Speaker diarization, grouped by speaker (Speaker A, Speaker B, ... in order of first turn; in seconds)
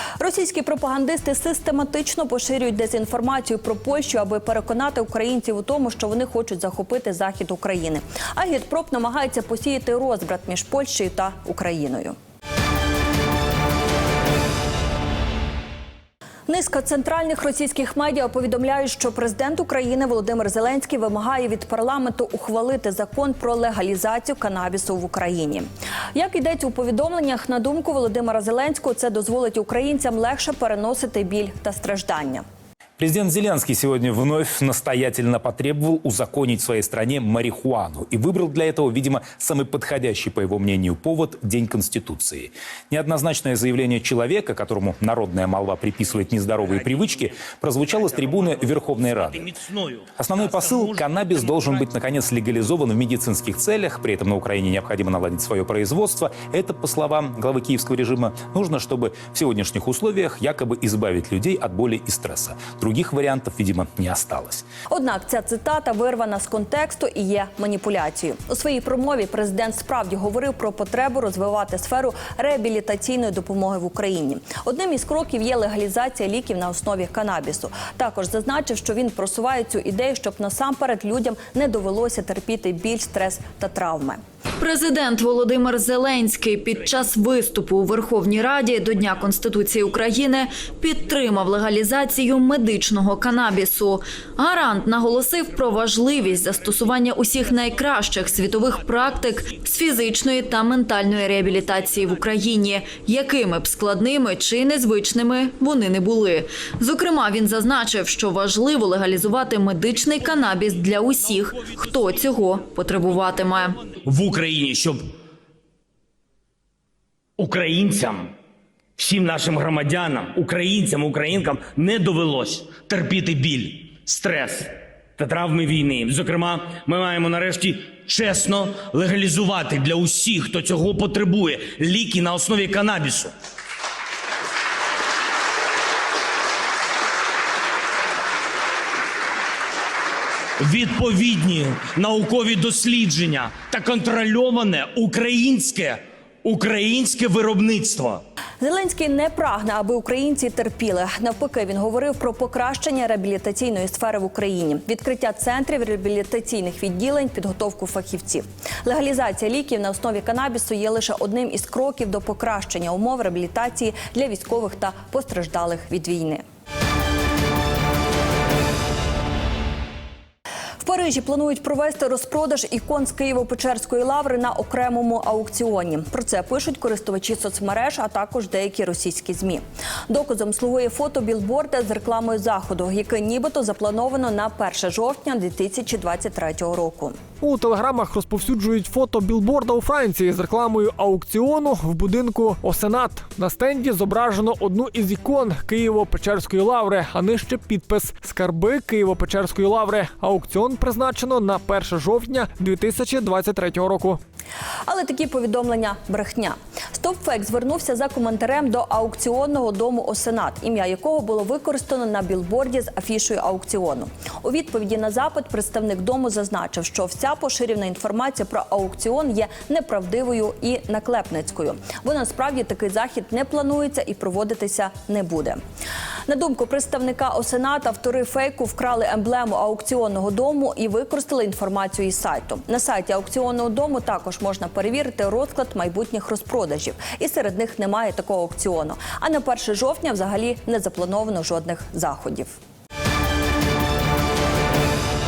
Speaker A: 0.2-12.2, 16.5-32.4, 64.9-84.2, 148.6-166.4, 170.8-187.2, 204.9-225.6, 226.3-242.5
Speaker B: 33.0-49.5, 50.2-64.7
Speaker C: 46.1-51.8, 96.6-97.2, 98.3-99.6, 101.5-102.2, 111.5-112.2, 113.8-115.1, 117.4-118.3, 119.0-133.3, 140.6-148.2
Speaker D: 84.6-113.8
Speaker E: 187.4-204.2